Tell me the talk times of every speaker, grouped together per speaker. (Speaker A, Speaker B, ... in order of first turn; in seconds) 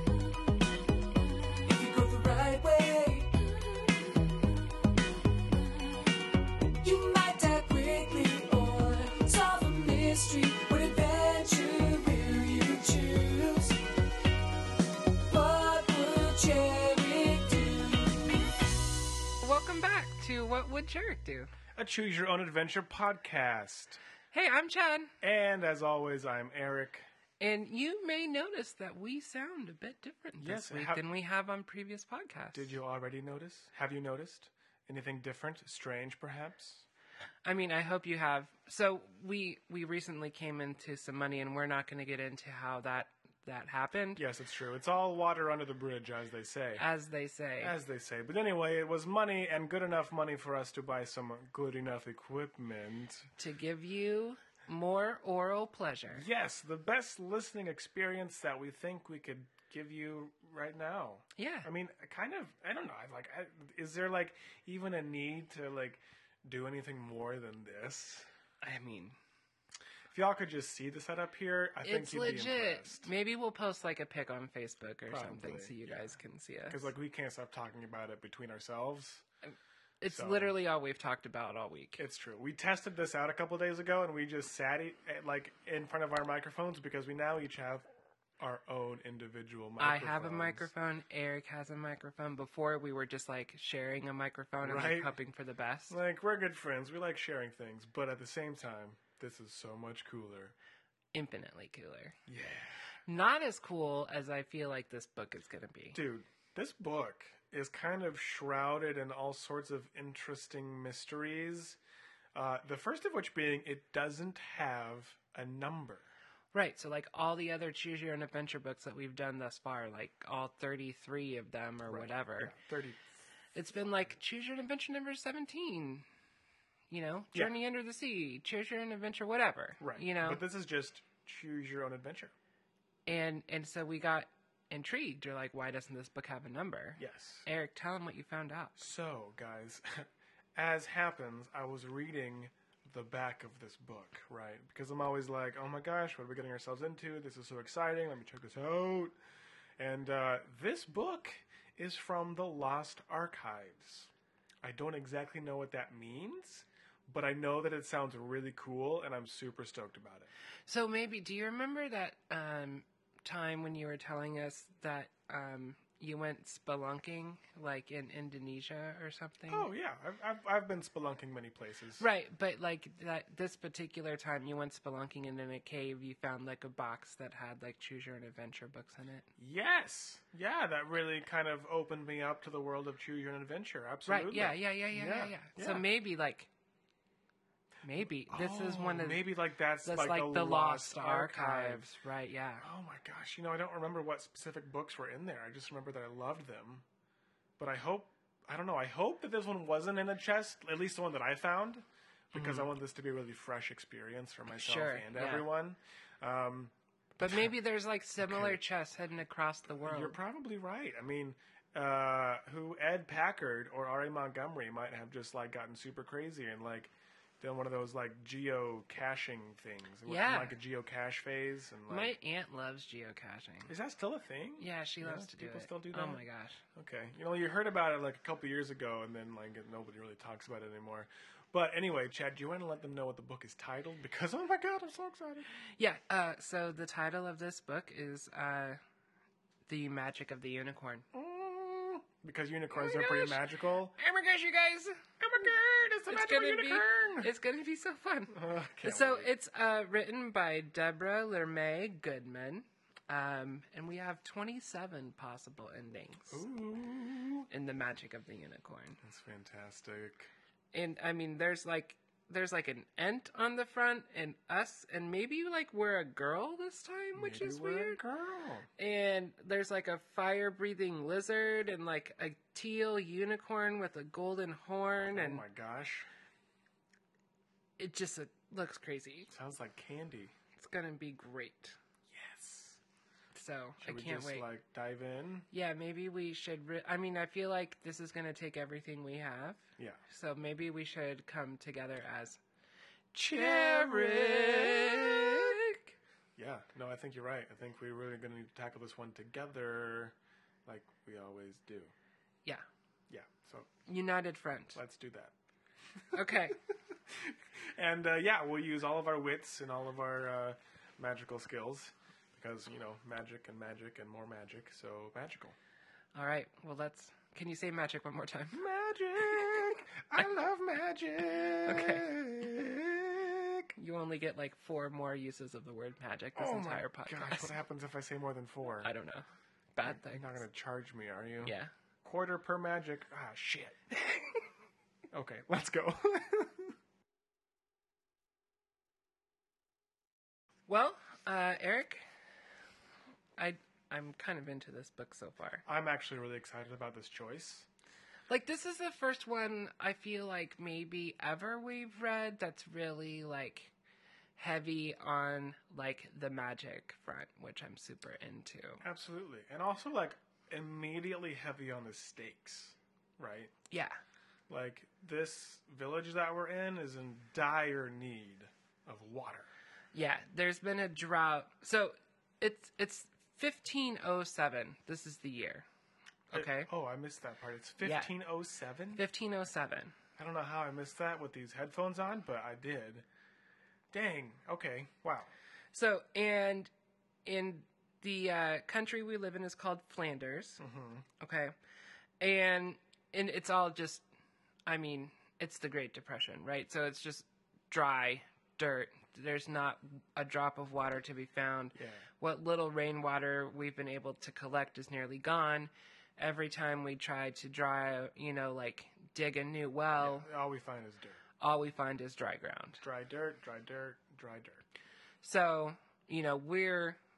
Speaker A: 1.6-3.3, 6.8-13.8, 15.3-18.4
Speaker B: 19.4-21.5, 24.3-25.1, 27.4-32.7, 37.4-44.2, 46.8-47.7, 53.4-56.2, 61.4-61.7, 68.6-69.2, 71.8-76.9, 79.4-82.0, 89.8-96.0, 101.1-102.2, 103.1-106.0, 116.5-122.5, 123.5-126.0, 126.9-130.4, 133.1-138.8, 160.7-169.7, 172.0-179.3, 184.1-186.5, 187.8-189.3, 189.8-192.7, 204.5-205.5, 207.2-210.2, 220.1-220.6, 221.9-223.7, 224.6-226.6, 235.8-238.8, 239.7-241.1, 242.7-243.4, 244.0-245.0, 246.1-256.4, 257.5-259.0, 260.7-268.0, 268.8-275.4, 277.8-279.3, 280.6-281.8, 283.3-284.5, 285.5-292.4, 293.1-295.9, 303.9-304.8, 306.1-306.6, 316.1-318.6, 321.6-322.1, 323.8-327.5, 328.8-330.4, 331.4-331.7, 340.7-342.0, 343.4-345.6, 348.3-353.7, 354.4-358.8, 363.7-364.0, 369.9-375.7, 376.3-376.7, 377.8-378.1, 378.9-379.9, 385.7-386.7, 387.2-390.6, 391.2-391.5, 392.2-394.0, 394.6-410.3, 411.4-412.8, 415.2-417.0
Speaker C: 21.8-24.0, 25.2-27.1, 30.4-31.0, 32.5-36.9, 44.1-46.8, 47.6-53.3, 56.1-68.3, 70.1-73.1, 75.1-76.2, 76.7-79.2, 80.1-80.5, 82.0-87.9, 88.4-90.7, 94.6-95.1, 95.9-100.5, 102.3-102.8, 105.9-111.8, 112.3-116.1, 121.9-123.0, 129.8-132.3, 137.0-137.4, 138.8-149.2, 149.8-154.1, 154.6-160.3, 169.5-172.0, 179.4-185.8, 188.2-191.9, 192.6-196.8, 197.6-206.7, 208.2-208.6, 209.8-222.1, 223.7-226.2, 226.7-235.5, 241.1-244.0, 245.2-247.3, 248.3-249.3, 256.3-257.5, 259.0-260.3, 267.1-268.7, 275.1-276.1, 279.3-280.3, 282.1-282.8, 283.8-285.5, 293.1-295.7, 296.4-301.9, 303.1-303.7, 304.7-305.3, 307.1-315.6, 318.5-323.7, 326.4-328.9, 329.8-333.9, 335.1-336.7, 345.6-347.7, 358.8-363.5, 364.5-369.5, 376.3-379.0, 380.2-383.1, 383.9-385.3, 390.6-391.0, 401.7-402.1, 410.0-411.2, 412.8-414.6